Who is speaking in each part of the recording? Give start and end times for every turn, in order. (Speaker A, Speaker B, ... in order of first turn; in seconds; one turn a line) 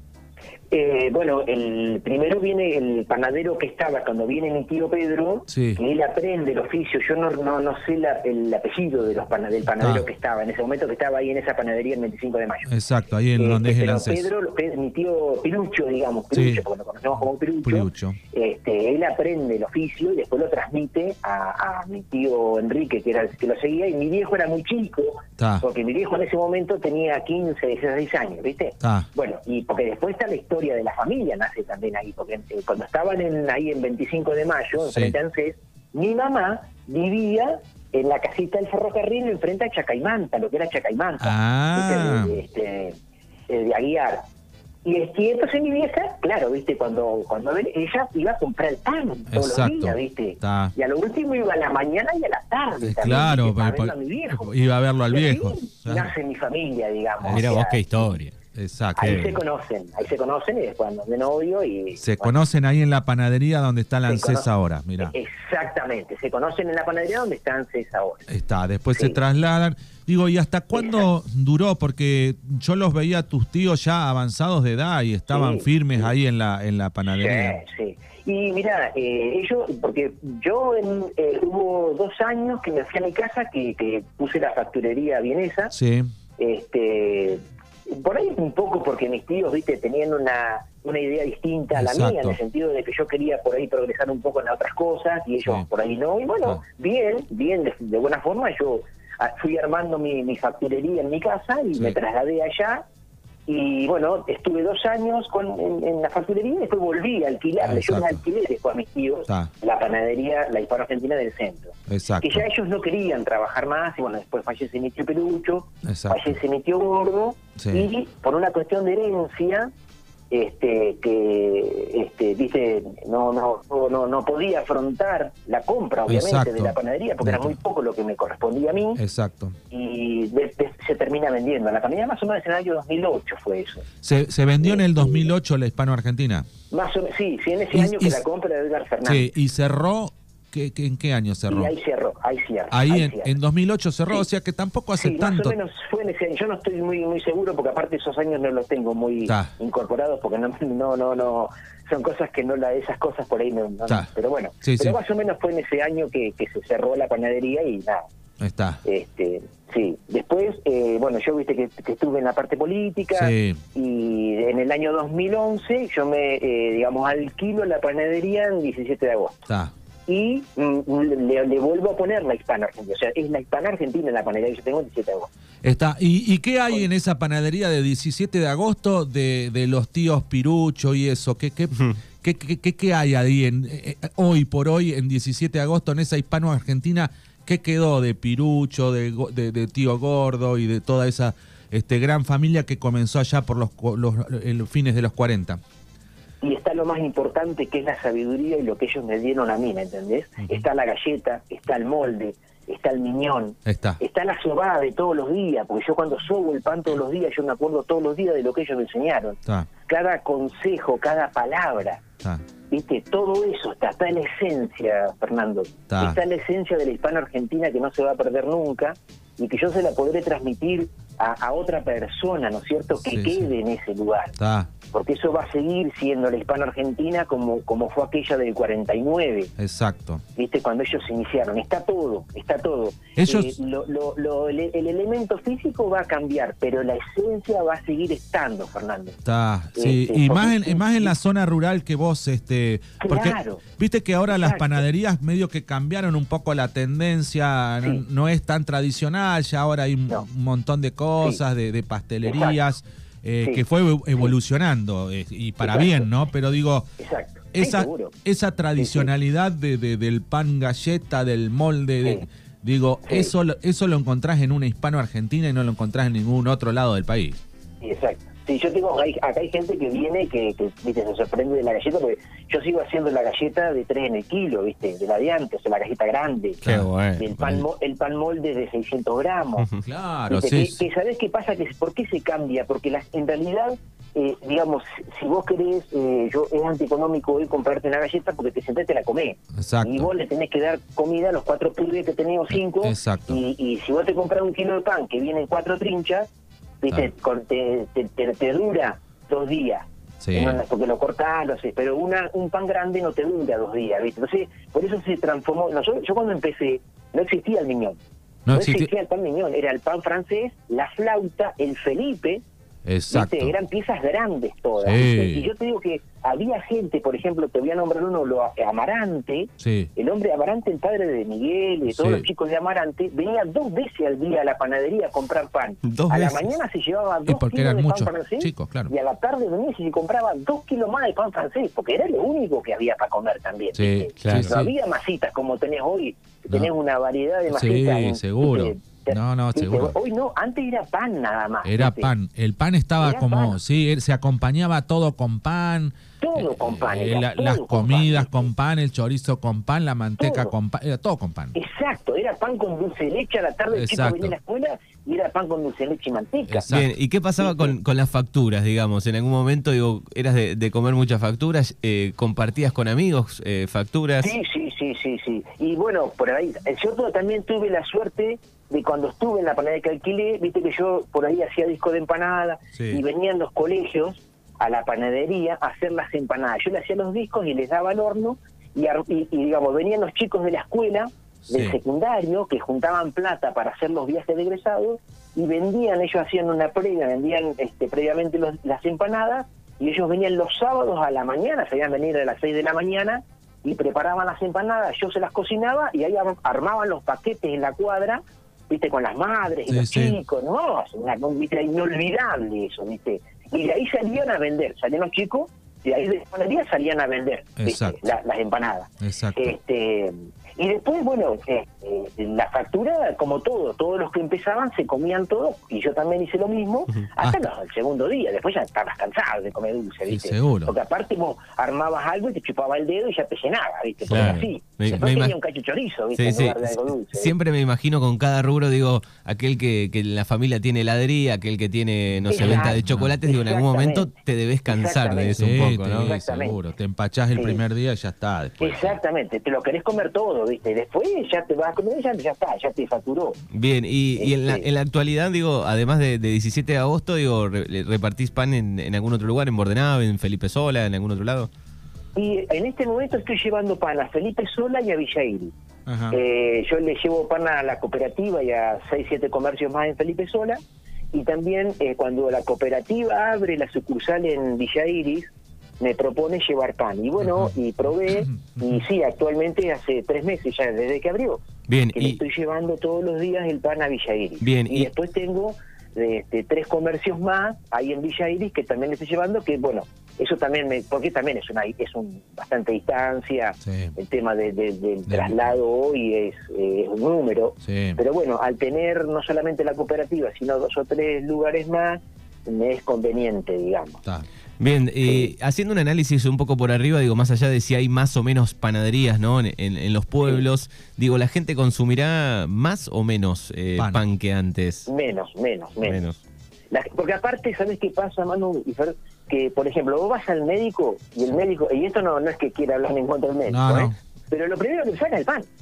Speaker A: 0.7-12.7
Speaker B: 5.5-5.8
Speaker B: 9.8-10.1
Speaker B: 12.7-14.3
Speaker A: 13.4-43.0
Speaker B: 16.3-16.6
Speaker B: 17.6-18.2
Speaker B: 25.4-25.6
Speaker B: 28.8-29.1
Speaker B: 41.2-42.4
Speaker A: 43.5-44.2
Speaker A: 44.8-54.5
Speaker B: 49.3-50.7
Speaker B: 52.8-56.1
Speaker A: 55.1-57.8
Speaker B: 57.2-57.6
Speaker C: 57.3-58.3
Speaker B: 58.5-59.4
Speaker A: 59.0-62.3
Speaker C: 59.0-59.4
Speaker B: 62.0-65.1
Speaker A: 64.1-64.5
Speaker A: 65.0-68.3
Speaker B: 68.3-77.6
Speaker A: 70.7-71.0
Speaker A: 75.3-76.1
Speaker A: 77.0-85.7
Speaker B: 85.7-86.1
Speaker A: 86.4-102.8
Speaker B: 91.7-92.4
Speaker A: 103.5-119.7
Speaker B: 107.6-108.2
Speaker B: 111.9-112.4
Speaker B: 115.8-116.4
Speaker B: 117.6-117.9
Speaker A: 120.3-129.0
Speaker B: 126.1-127.6
Speaker B: 129.0-129.6
Speaker A: 129.7-133.9
Speaker B: 134.0-136.5
Speaker A: 134.6-135.3
Speaker A: 136.7-139.3
Speaker B: 137.7-138.2
Speaker B: 139.0-141.7
Speaker A: 141.5-143.3
Speaker B: 142.7-145.6
Speaker A: 145.0-158.1
Speaker B: 149.2-149.5
Speaker B: 154.6-155.0
Speaker B: 158.4-158.8
Speaker A: 158.8-169.4
Speaker B: 163.1-163.6
Speaker B: 169.5-169.7
Speaker A: 170.1-175.3
Speaker B: 175.6-195.6
Speaker A: 196.4-212.0
Speaker B: 200.4-200.7
Speaker B: 203.7-204.0
Speaker A: 212.7-224.3
Speaker B: 215.9-216.2
Speaker B: 223.1-223.5
Speaker B: 224.4-224.7
Speaker A: 224.9-229.5
Speaker B: 229.6-230.2
Speaker A: 230.3-239.2
Speaker B: 233.2-233.5
Speaker B: 239.2-256.9
Speaker A: 239.8-241.1
Speaker A: 243.0-243.6
Speaker A: 244.3-244.8
Speaker A: 252.2-252.6
Speaker A: 255.6-256.1
Speaker A: 257.0-258.1
Speaker B: 257.5-267.4
Speaker A: 258.8-259.1
Speaker A: 263.1-263.3
Speaker A: 267.8-276.6
Speaker B: 276.6-277.6
Speaker C: 276.6-277.3
Speaker A: 277.2-279.7
Speaker B: 279.8-280.8
Speaker A: 280.3-296.3
Speaker B: 289.5-290.1
Speaker B: 292.5-293.4
Speaker A: 296.8-308.0
Speaker B: 300.2-300.6
Speaker B: 308.4-308.9
Speaker A: 308.5-312.4
Speaker B: 312.8-313.5
Speaker A: 313.1-342.1
Speaker B: 314.8-315.5
Speaker B: 319.6-319.9
Speaker B: 321.9-322.2
Speaker C: 325.9-326.5
Speaker B: 327.2-328.9
Speaker B: 333.8-334.7
Speaker C: 334.2-334.6
Speaker B: 337.5-339.9
Speaker B: 341.6-351.5
Speaker A: 343.0-343.6
Speaker A: 346.2-348.5
Speaker A: 350.2-350.5
Speaker A: 351.5-356.7
Speaker B: 353.7-354.4
Speaker B: 356.5-356.9
Speaker C: 356.7-364.3
Speaker A: 357.4-357.7
Speaker A: 364.2-427.3
Speaker B: 372.7-373.0
Speaker B: 381.5-381.8
Speaker B: 399.7-400.2
Speaker B: 407.6-408.0
Speaker B: 409.0-409.6
Speaker B: 420.1-420.7
Speaker C: 424.1-425.4
Speaker C: 426.2-436.1
Speaker A: 432.3-434.1
Speaker B: 432.8-433.1
Speaker A: 434.7-436.6
Speaker B: 435.3-439.0
Speaker A: 437.3-437.6
Speaker A: 438.6-443.4
Speaker C: 443.5-451.5
Speaker A: 444.2-444.6
Speaker A: 452.1-455.5
Speaker B: 455.9-456.2
Speaker A: 456.1-460.6
Speaker A: 461.1-471.4
Speaker B: 468.1-468.7
Speaker C: 471.7-472.2
Speaker A: 471.9-494.0
Speaker C: 474.4-474.9
Speaker B: 483.6-483.9
Speaker B: 485.1-485.4
Speaker B: 487.6-488.0
Speaker C: 494.6-504.9
Speaker A: 495.0-495.3
Speaker B: 503.8-504.0
Speaker A: 504.9-506.0
Speaker C: 505.8-506.2
Speaker A: 506.7-515.5
Speaker B: 513.5-514.0